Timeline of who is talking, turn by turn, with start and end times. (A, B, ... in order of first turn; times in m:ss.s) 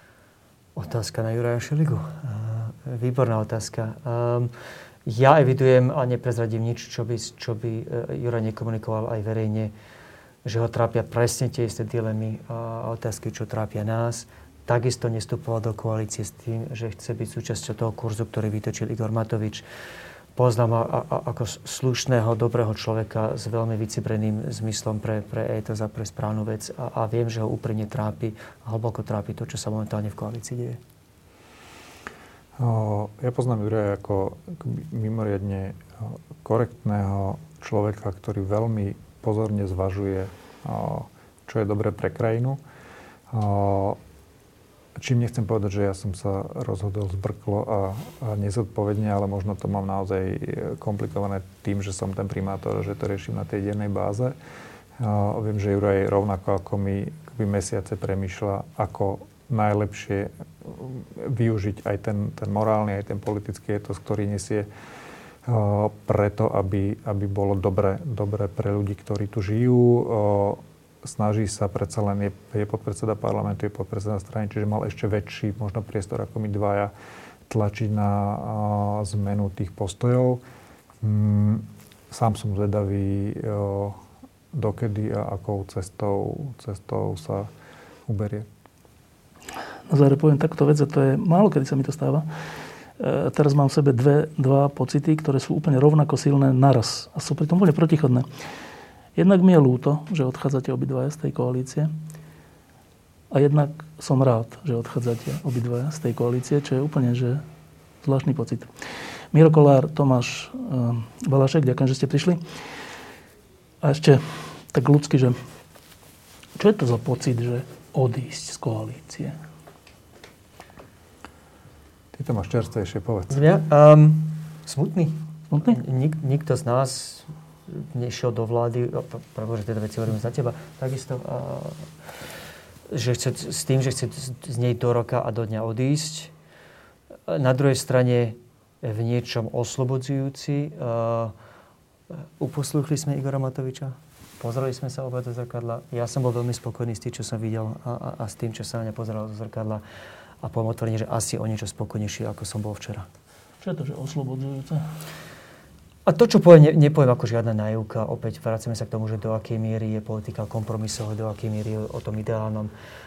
0:00.8-0:04.5 A
0:05.0-0:09.7 A
0:10.4-0:19.6 A
0:20.4-0:30.8 A
0:32.6-0:42.6 B
0:43.3-0:44.0 B
0:45.0-0:54.3 B
0:55.0-1:04.7 B
1:05.4-1:16.9 B
1:17.5-1:20.4 B
1:21.0-1:24.0 B
1:24.5-1:27.5 B
1:28.0-1:28.5 B
1:29.9-1:32.3 C
1:33.0-1:38.3 C
1:39.2-1:41.9 C
1:43.3-1:47.4 C
1:48.0-1:48.7 C
1:49.3-1:52.4 C
1:53.8-1:55.4 C
1:56.6-1:59.4 C
2:02.1-2:03.4 B
2:03.3-2:11.9 A
2:05.5-2:05.8 C
2:12.9-2:16.3 A
2:17.3-2:21.3 A
2:22.1-2:29.8 A
2:30.4-2:33.1 A
2:33.6-2:34.9 C
2:36.0-2:42.7 A